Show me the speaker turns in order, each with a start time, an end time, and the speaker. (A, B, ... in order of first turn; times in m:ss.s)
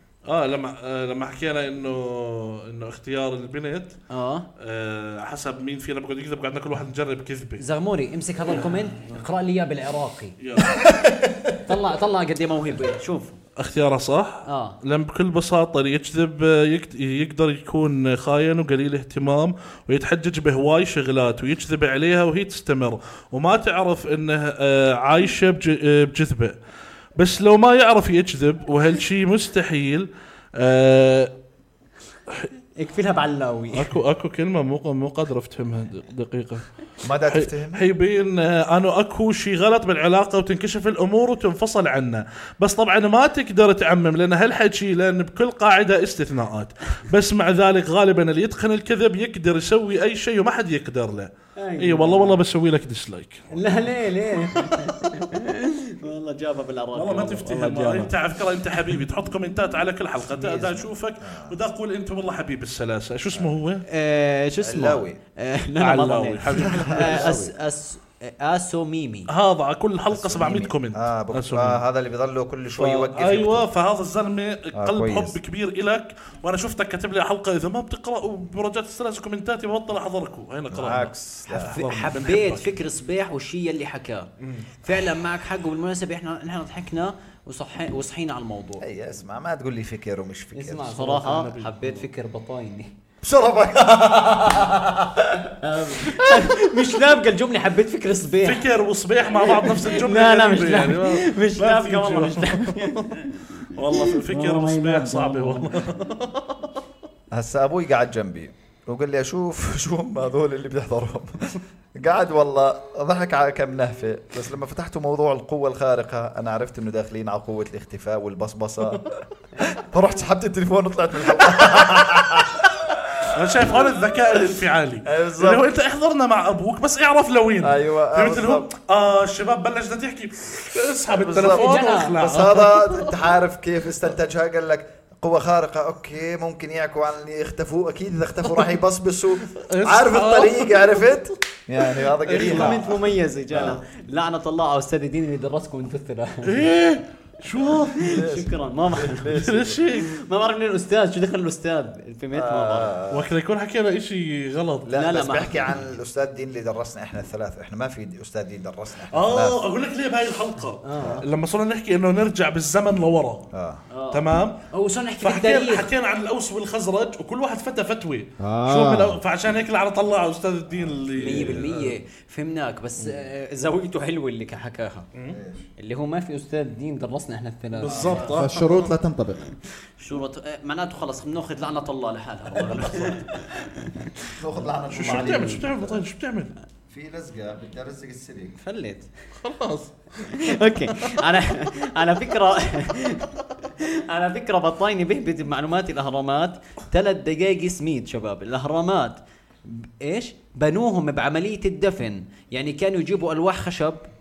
0:00.2-0:04.0 A
0:04.1-0:04.5 B
0:04.6-0:07.6 A
0:07.6-0:10.4 B
0:10.4-0:11.6 A
0:11.6-0:13.4 B
0:13.6-0:26.6 A
0:14.4-0:14.8 B
0:27.2-0:31.3 A
0:32.8-0:33.9 B
0:33.7-0:36.6 A
0:37.0-0:37.8 C
0:37.2-0:53.5 A
0:51.6-0:52.4 B
0:53.5-0:58.1 B
0:56.9-1:03.8 A
1:00.2-1:01.6 C
1:03.8-1:09.3 B
1:04.6-1:05.2 C
1:05.8-1:07.3 A
1:06.5-1:07.5 C
1:09.3-1:11.8 A
1:10.1-1:13.7 C
1:12.8-1:22.8 A
1:14.7-1:15.4 C
1:20.7-1:21.8 C
1:21.5-1:24.3 B
1:24.4-1:24.7 A
1:24.8-1:28.8 B
1:28.8-1:31.1 C
1:30.5-1:32.9 B
1:31.0-1:32.0 A
1:33.2-1:35.4 C
1:35.6-1:38.7 B
1:38.4-1:46.7 A
1:39.3-1:46.0 B
1:47.3-2:02.7 C
2:01.4-2:02.3 A
2:03.2-2:13.1 A
2:03.2-2:03.9 C
2:05.0-2:05.6 C
2:07.6-2:08.7 C
2:11.1-2:23.8 C
2:11.4-2:12.1 B
2:19.5-2:21.1 A
2:22.0-2:22.9 A
2:22.3-2:26.7 B
2:26.4-2:28.2 A
2:28.0-2:32.9 B
2:28.0-2:29.9 C
2:29.3-2:30.1 A
2:32.3-2:33.3 C
2:33.1-2:34.9 A
2:34.8-2:39.6 C
2:34.9-2:35.8 B
2:39.1-2:43.5 A
2:40.8-2:41.2 B
2:40.9-2:41.2 C
2:43.5-2:43.8 C
2:43.9-2:45.9 B
2:44.1-2:44.6 A
2:45.2-2:51.7 A
2:48.4-2:49.2 C
2:50.9-2:51.9 C
2:51.2-2:55.1 B
2:55.3-2:55.7 C
2:55.8-2:58.8 B
2:57.7-2:58.8 A
2:57.9-2:59.5 C
3:00.0-3:04.1 B
3:02.7-3:03.1 A
3:04.3-3:06.0 C
3:04.9-3:06.5 A
3:06.9-3:08.6 C
3:08.6-3:09.1 B
3:09.4-3:11.1 A
3:10.2-3:24.0 B